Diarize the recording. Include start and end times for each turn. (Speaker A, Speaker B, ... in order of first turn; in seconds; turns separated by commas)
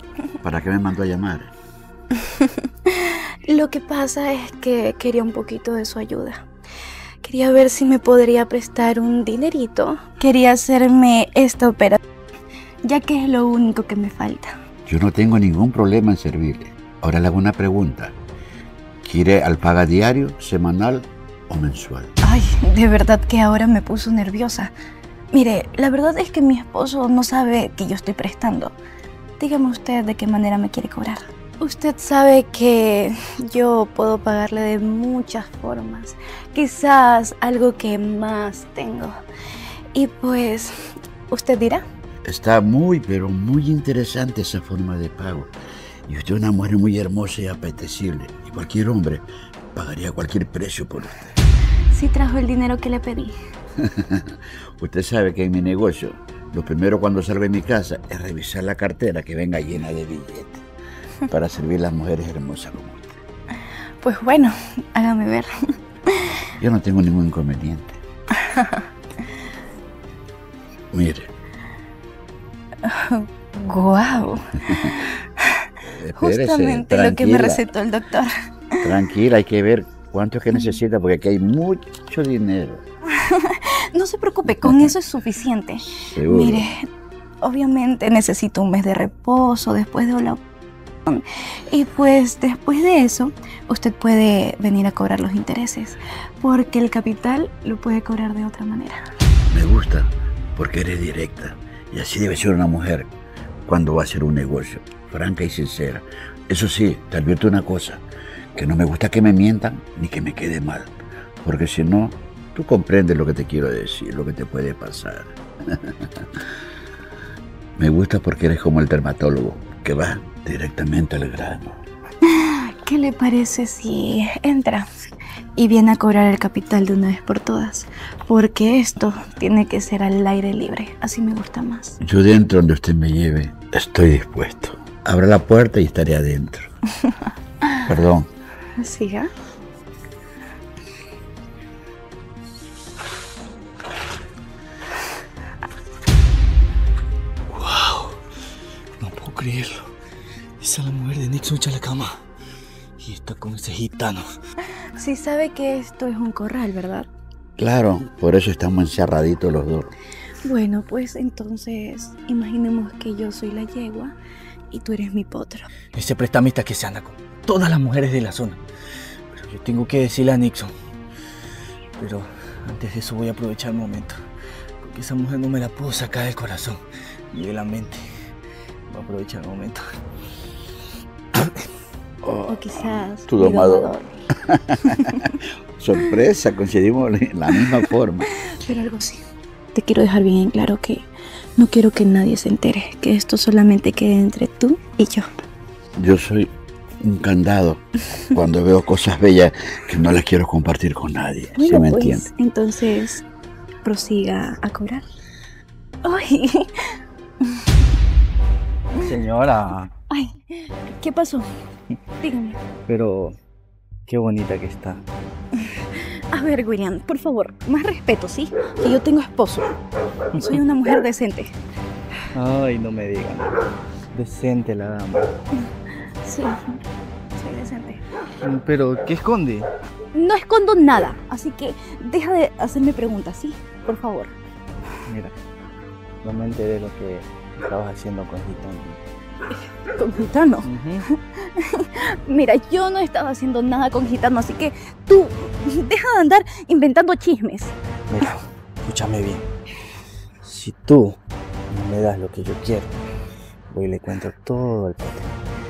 Speaker A: 0.4-1.5, Speaker B: 2.9-6.5, Speaker B: 7.2-12.0, Speaker B: 12.8-14.6, Speaker A: 14.9-18.1, Speaker A: 19.0-22.1, Speaker B: 22.2-24.7, Speaker B: 25.3-28.8, Speaker B: 29.4-39.1, Speaker B: 40.0-40.7, Speaker B: 41.3-41.8, Speaker A: 42.2-45.5, Speaker A: 46.1-51.3, Speaker B: 51.9-53.4, Speaker A: 53.8-60.6, Speaker A: 61.3-63.2, Speaker B: 64.0-65.5, Speaker A: 66.6-68.0, Speaker B: 68.5-68.8, Speaker A: 70.9-71.3, Speaker B: 72.9-75.1, Speaker A: 75.8-77.6, Speaker B: 76.2-78.8, Speaker A: 78.8-82.8, Speaker B: 83.2-86.8, Speaker A: 84.5-84.9, Speaker A: 86.1-86.7, Speaker B: 87.4-90.4, Speaker B: 91.1-99.0, Speaker A: 99.5-103.1, Speaker A: 103.7-108.0, Speaker A: 108.5-115.9, Speaker A: 117.8-121.8, Speaker B: 122.3-124.9, Speaker B: 125.6-132.0, Speaker A: 132.0-136.7, Speaker A: 137.8-138.3, Speaker B: 138.8-139.3, Speaker C: 147.5-148.2, Speaker C: 149.0-149.9, Speaker C: 150.6-152.2, Speaker C: 153.0-154.2, Speaker B: 155.0-157.1, Speaker A: 157.6-159.9, Speaker B: 160.4-164.2, Speaker B: 164.7-165.7, Speaker C: 165.9-168.6, Speaker C: 169.3-170.7, Speaker C: 172.0-174.2, Speaker C: 174.8-178.0, Speaker C: 178.9-179.8, Speaker A: 182.2-183.9, Speaker B: 182.5-184.1, Speaker A: 184.5-188.3, Speaker B: 188.5-191.1, Speaker B: 191.6-195.3, Speaker A: 195.9-202.3, Speaker B: 201.6-203.2, Speaker B: 203.8-205.1, Speaker B: 206.0-206.7, Speaker C: 209.0-209.9, Speaker B: 210.1-211.5, Speaker B: 212.2-212.6, Speaker C: 212.9-213.4, Speaker C: 214.1-215.0, Speaker B: 216.3-219.7, Speaker B: 220.3-221.6, Speaker C: 222.3-223.6, Speaker C: 224.1-225.3, Speaker B: 226.2-226.8, Speaker B: 227.4-228.0, Speaker C: 228.4-229.7, Speaker B: 230.1-234.3, Speaker C: 235.1-235.4, Speaker C: 236.2-239.0, Speaker B: 240.0-240.7, Speaker C: 240.6-241.1, Speaker B: 241.4-247.7, Speaker C: 248.1-249.5, Speaker C: 250.4-252.9, Speaker C: 253.7-255.3